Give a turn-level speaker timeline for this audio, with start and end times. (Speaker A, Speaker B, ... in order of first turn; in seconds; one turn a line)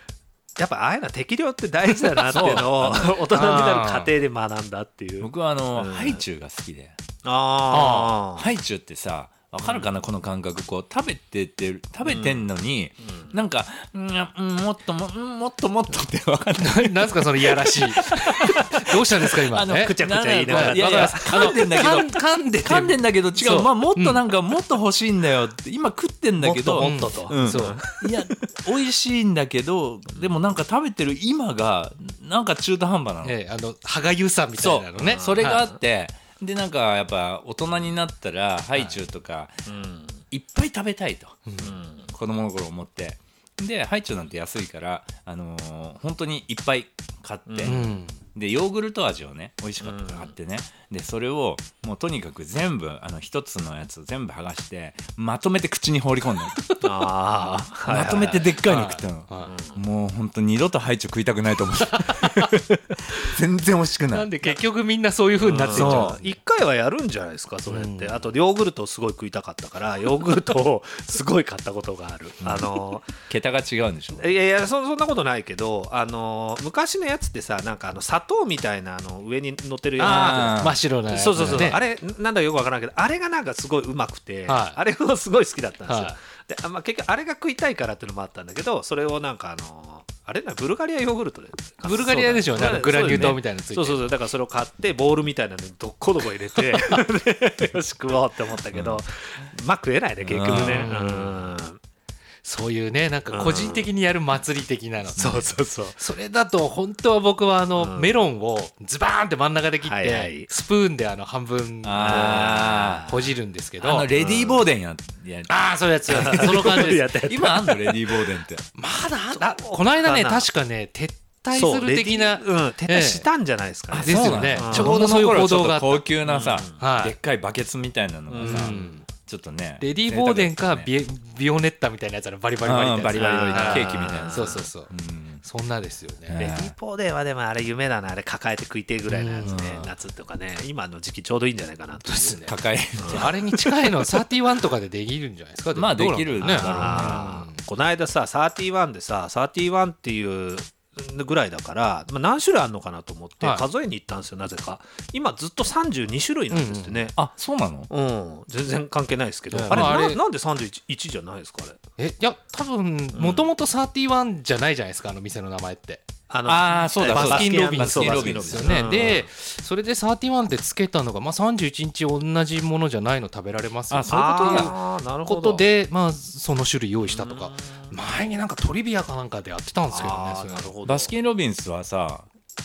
Speaker A: 0.6-6.2
Speaker B: 2.3-3.2
Speaker C: 3.3-4.1
Speaker B: 5.2-7.0
Speaker A: 7.2-8.5
Speaker C: 7.7-8.2
Speaker B: 8.4-18.7
Speaker A: 9.6-9.9
Speaker A: 12.1-12.5
Speaker A: 13.0-13.3
Speaker C: 16.6-19.9
Speaker B: 19.3-33.4
Speaker A: 19.7-21.7
Speaker C: 20.5-24.2
Speaker A: 26.4-28.1
Speaker C: 26.8-27.8
Speaker C: 33.2-35.7
Speaker B: 34.6-39.5
Speaker A: 35.0-35.8
Speaker A: 39.7-40.2
Speaker B: 40.3-41.5
Speaker C: 41.5-41.8
Speaker A: 41.6-42.1
Speaker B: 42.1-56.6
Speaker A: 47.5-47.9
Speaker C: 47.6-48.2
Speaker A: 49.8-50.3
Speaker C: 56.5-56.9
Speaker A: 56.8-58.5
Speaker B: 57.9-64.3
Speaker C: 58.0-59.5
Speaker A: 59.5-59.8
Speaker C: 61.9-62.5
Speaker C: 64.1-66.4
Speaker A: 65.4-73.1
Speaker B: 65.7-66.1
Speaker C: 67.7-68.2
Speaker B: 72.4-72.7
Speaker B: 73.3-74.3
Speaker A: 74.2-101.8
Speaker C: 80.0-81.8
Speaker B: 80.0-80.8
Speaker B: 81.4-81.7
Speaker C: 84.5-84.8
Speaker C: 85.9-86.2
Speaker C: 91.8-94.1
Speaker B: 92.3-93.4
Speaker C: 96.6-97.0
Speaker B: 98.7-99.0
Speaker B: 100.2-100.9
Speaker C: 100.5-101.5
Speaker C: 102.4-114.1
Speaker A: 103.3-103.9
Speaker A: 105.2-106.0
Speaker A: 107.8-108.1
Speaker A: 109.8-110.5
Speaker B: 111.8-113.1
Speaker A: 112.0-113.3
Speaker B: 113.8-115.5
Speaker A: 114.1-114.7
Speaker C: 115.5-117.2
Speaker A: 116.1-118.0
Speaker B: 116.1-118.7
Speaker C: 118.8-123.3
Speaker A: 119.4-120.5
Speaker A: 121.5-125.0
Speaker B: 123.9-130.9
Speaker C: 124.0-126.0
Speaker A: 126.2-126.8
Speaker C: 126.8-127.2
Speaker A: 128.3-128.9
Speaker C: 128.4-129.1
Speaker C: 129.8-134.9
Speaker B: 132.6-135.4
Speaker A: 133.2-134.7
Speaker C: 135.4-136.5
Speaker B: 136.3-136.8
Speaker A: 136.4-143.3
Speaker C: 139.1-139.8
Speaker B: 139.4-139.9
Speaker C: 142.0-142.5
Speaker B: 142.5-144.0
Speaker C: 143.1-147.6
Speaker B: 145.7-147.2
Speaker A: 146.4-157.2
Speaker C: 153.4-153.7
Speaker C: 156.5-157.0
Speaker B: 157.2-157.9
Speaker A: 157.9-161.8
Speaker C: 159.5-160.2
Speaker B: 159.7-160.0
Speaker C: 162.0-166.0
Speaker A: 163.1-163.5
Speaker A: 166.3-169.3
Speaker B: 166.4-169.1
Speaker C: 167.1-180.7
Speaker B: 173.9-174.7
Speaker A: 174.1-175.7
Speaker A: 177.1-178.0
Speaker A: 179.9-181.1
Speaker B: 180.8-182.3